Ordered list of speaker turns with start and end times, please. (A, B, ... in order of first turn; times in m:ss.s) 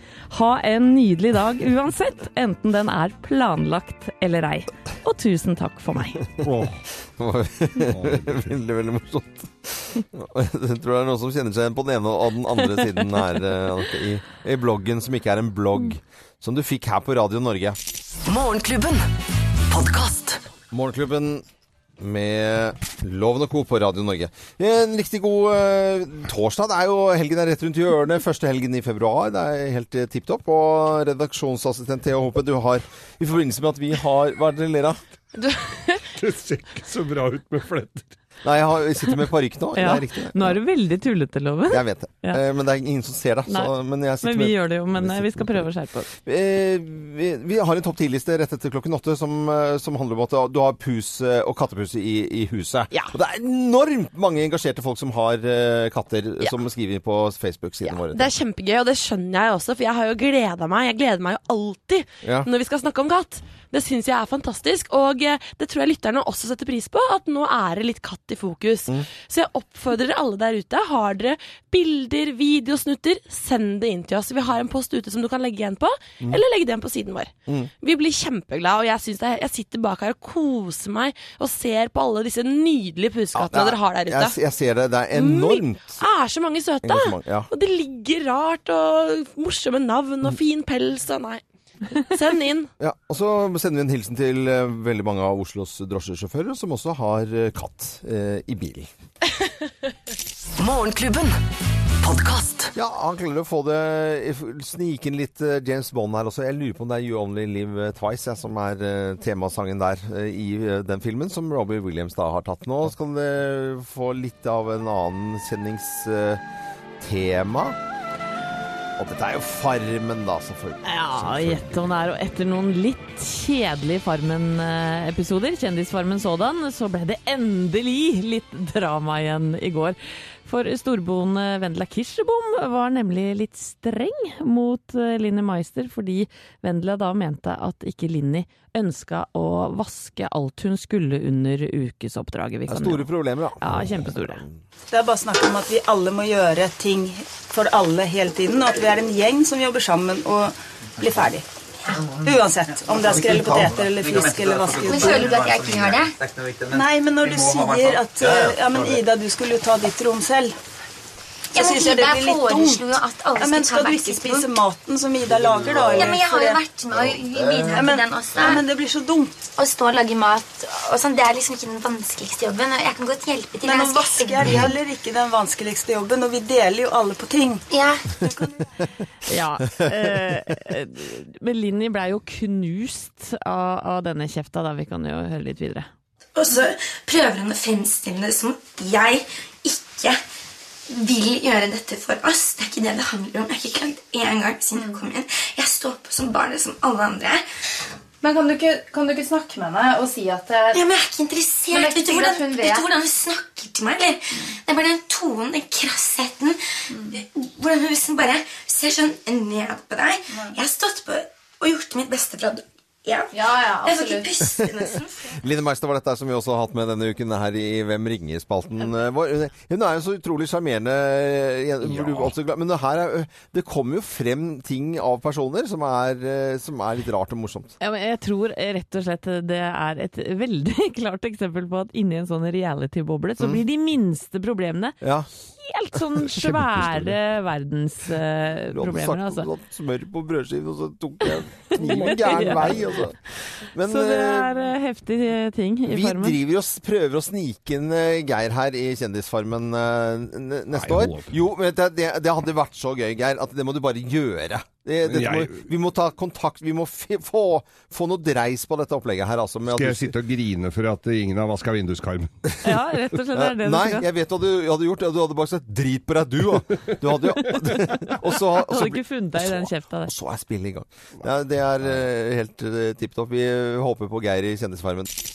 0:00.3-0:06.2 A
0:06.4-0:06.8 B
0:07.1-0:17.8 C
0:07.9-0:08.5 B
0:18.2-0:19.1 D
0:19.7-0:20.4 D
0:20.7-0:21.4 C
0:22.0-0:35.0 C
0:36.1-0:38.1 B
0:38.4-0:40.6 C
0:39.7-0:42.4 A
0:41.7-0:58.3 C
0:43.5-0:46.1 A
0:57.8-1:24.4 E
1:02.2-1:02.5 C
1:23.3-1:26.0 C
1:25.1-1:31.4 E
1:26.8-1:27.5 C
1:31.9-1:32.7 E
1:32.8-1:38.9 C
1:40.6-1:41.4 D
1:42.0-1:42.7 D
1:42.7-1:56.4 C
1:57.0-1:57.8 C
1:59.0-2:01.9 C
2:00.8-2:24.4 A
2:22.7-2:24.6 C
2:24.9-2:31.4 F
2:32.2-2:35.4 F
2:34.9-2:36.2 G
2:36.6-2:40.6 F
2:41.5-2:46.6 F
2:41.6-2:42.6 G
2:41.6-2:44.4 H
2:45.9-2:48.6 G
2:46.0-2:48.5 H
2:47.6-2:49.4 F
2:49.5-2:54.3 H
2:53.1-2:54.3 G
2:53.6-2:57.6 F
2:57.7-2:58.4 H
2:59.2-3:05.9 A
2:59.6-3:00.4 C
3:06.4-3:10.2 G
3:10.9-3:17.4 G
3:14.8-3:15.0 I
3:18.2-3:20.8 I
3:20.7-3:35.3 G
3:21.7-3:22.9 I
3:33.3-3:34.3 I
3:34.6-3:47.7 C
3:41.8-3:42.3 B
3:47.8-3:59.5 A
3:55.0-3:55.3 C
3:56.3-3:57.2 B
3:58.7-4:04.6 C
4:01.7-4:03.0 A
4:03.8-4:06.4 A
4:05.9-4:20.1 C
4:10.7-4:11.3 B
4:15.1-4:15.6 B
4:19.7-4:22.5 B
4:22.6-4:24.0 A
4:23.3-4:35.1 C
4:28.4-4:30.1 A